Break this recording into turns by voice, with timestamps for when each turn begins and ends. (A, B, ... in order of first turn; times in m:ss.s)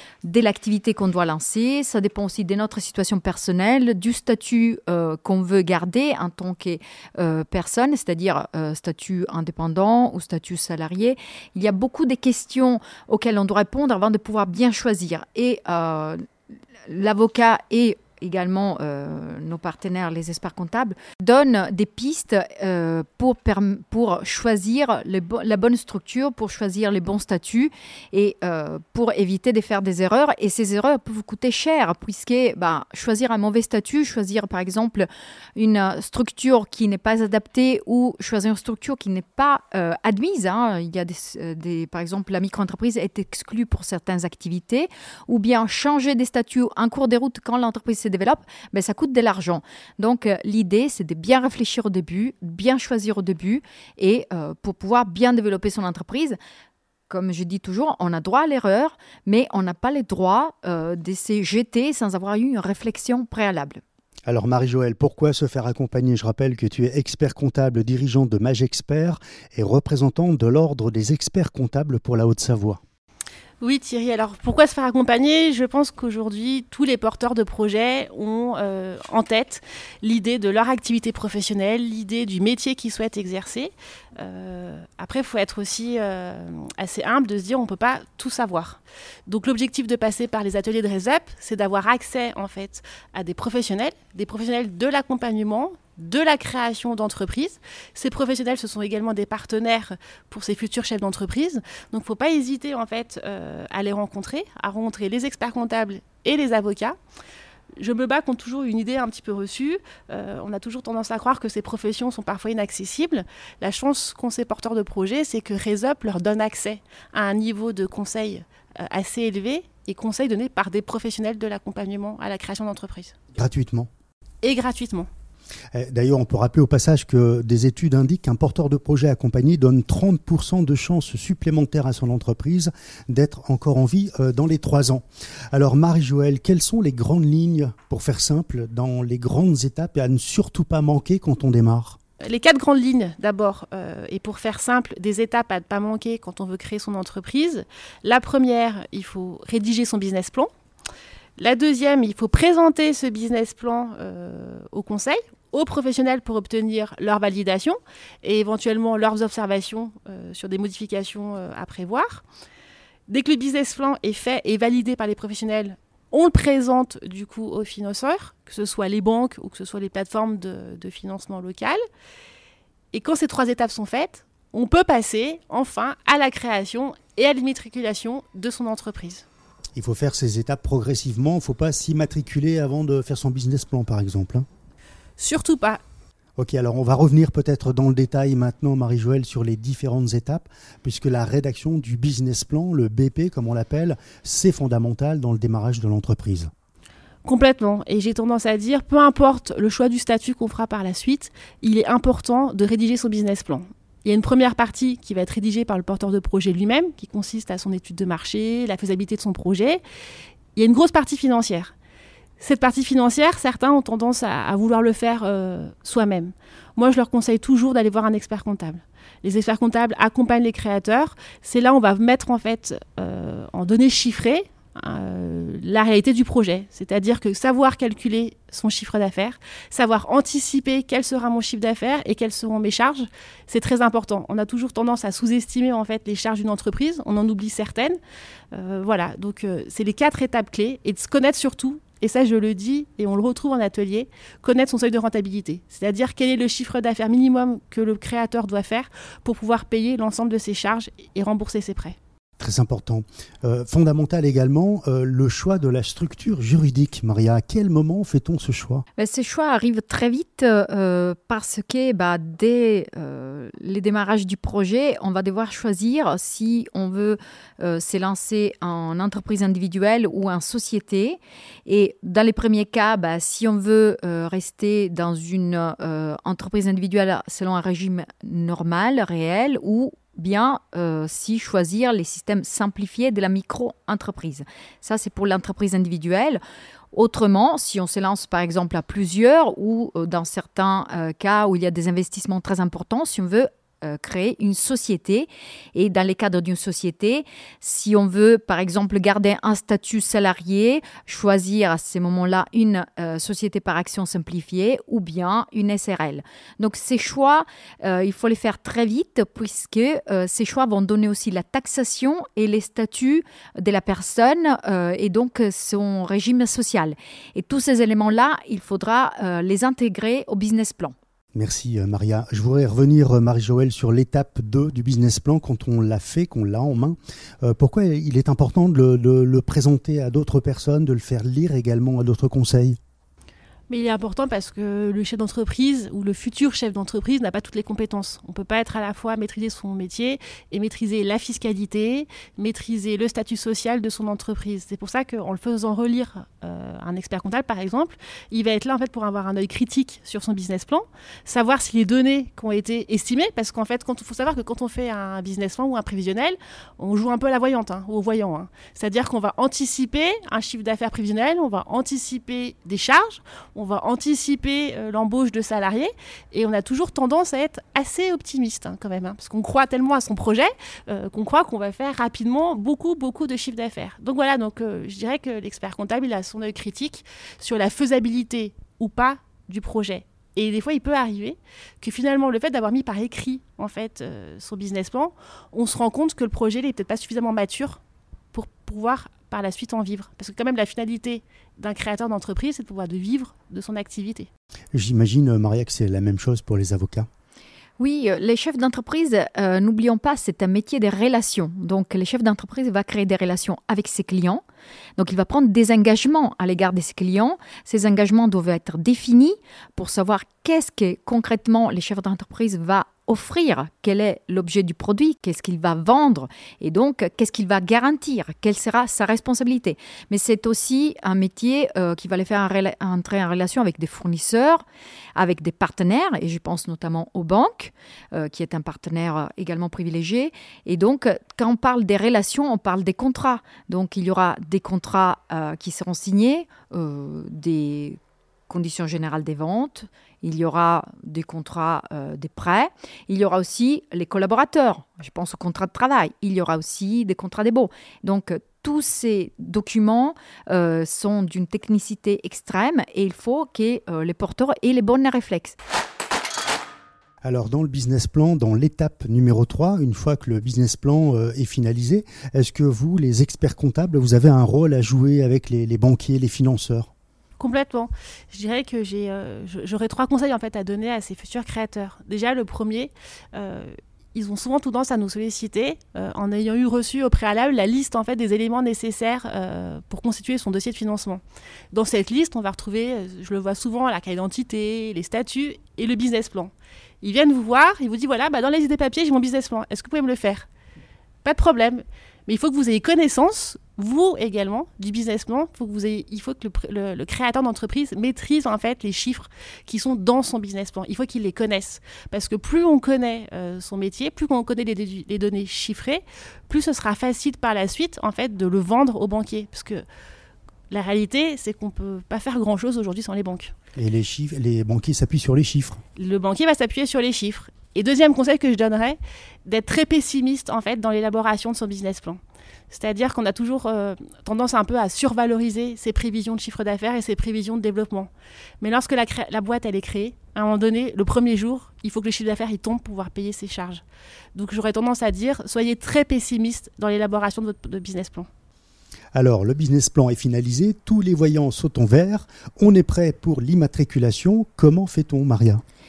0:00.2-0:16.2 A
0:16.9-0:56.4 A
0:57.1-1:03.8 A
1:04.2-1:12.8 B
1:13.6-1:47.0 C
1:47.8-2:03.1 C
2:03.3-2:03.9 B
2:04.4-2:05.1 C
2:05.7-2:22.0 B
2:22.2-2:30.5 C
2:31.4-2:42.2 C
2:43.1-2:51.8 C
2:52.9-2:59.2 C
2:59.8-3:04.4 B
3:05.2-3:05.8 C
3:06.4-3:16.5 B
3:17.2-3:29.8 C
3:30.5-3:31.7 C
3:32.4-3:58.0 C
3:58.5-4:12.0 C
4:12.4-4:18.8 B
4:19.0-4:46.4 A
4:46.9-5:21.0 A
5:21.3-5:32.8 B
5:33.7-6:27.8 C
6:28.3-6:34.3 C
6:34.7-6:37.1 B
6:37.8-6:44.4 A
6:45.0-7:04.6 A
7:05.2-7:35.6 A
7:37.2-7:46.9 B
7:47.4-8:10.5 C
8:11.2-8:29.8 C
8:30.7-8:33.5 C
8:33.8-8:35.8 B
8:36.0-8:48.1 C
8:48.6-8:53.8 C
8:54.3-8:58.3 C
8:59.1-9:05.6 B